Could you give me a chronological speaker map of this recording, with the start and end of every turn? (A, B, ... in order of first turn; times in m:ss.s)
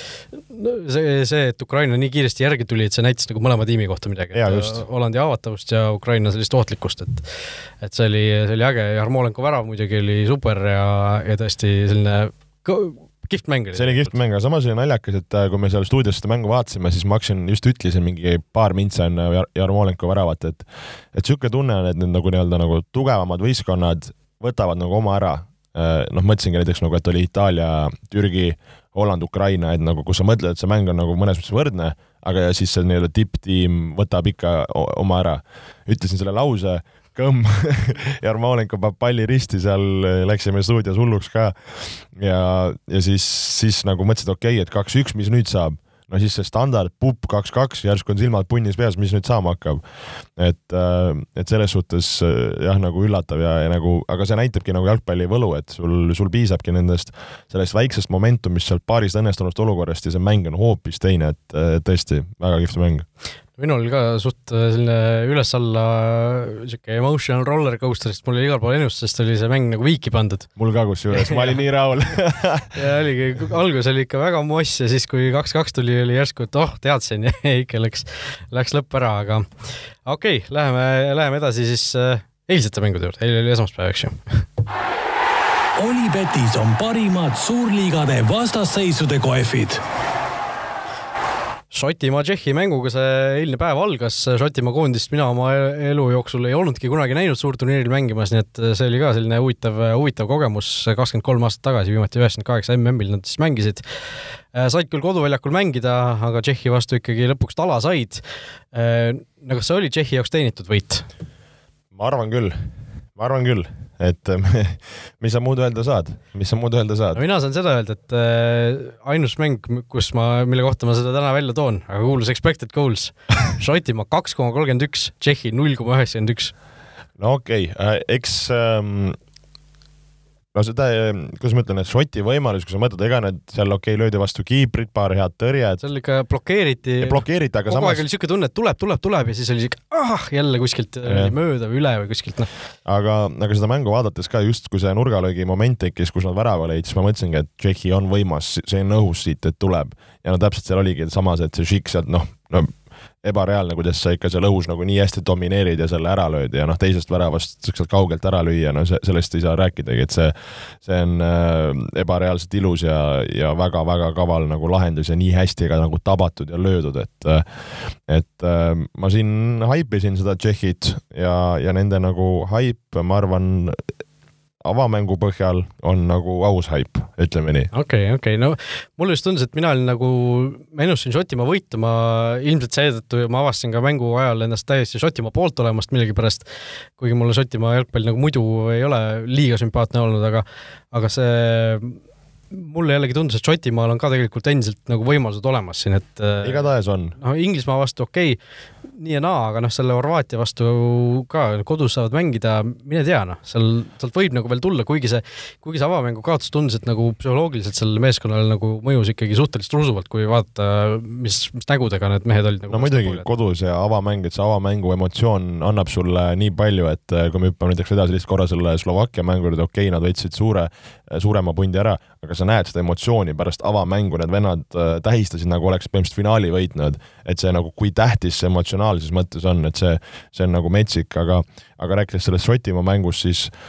0:00.3-0:14.1 A
0:04.3-0:04.8 B
0:13.7-0:49.8 B
0:50.4-1:03.0 B
1:03.6-1:10.5 A
1:10.6-1:12.8 B
1:11.1-1:11.6 A
1:12.7-1:24.4 A
1:25.8-1:29.8 C
1:31.7-1:43.8 A
1:44.5-1:51.0 A
1:51.9-1:57.2 B
1:57.1-2:06.5 A
2:07.2-2:09.2 B
2:10.5-2:15.8 B
2:15.8-2:22.5 A
2:17.0-2:18.0 B
2:21.0-2:21.3 B
2:22.8-2:47.4 B
2:48.1-2:53.8 B
2:54.6-2:57.7 B
2:57.7-3:06.4 A
3:07.0-3:12.0 A
3:12.5-3:18.4 A
3:16.4-3:17.2 B
3:19.0-3:33.2 A
3:32.7-3:53.5 B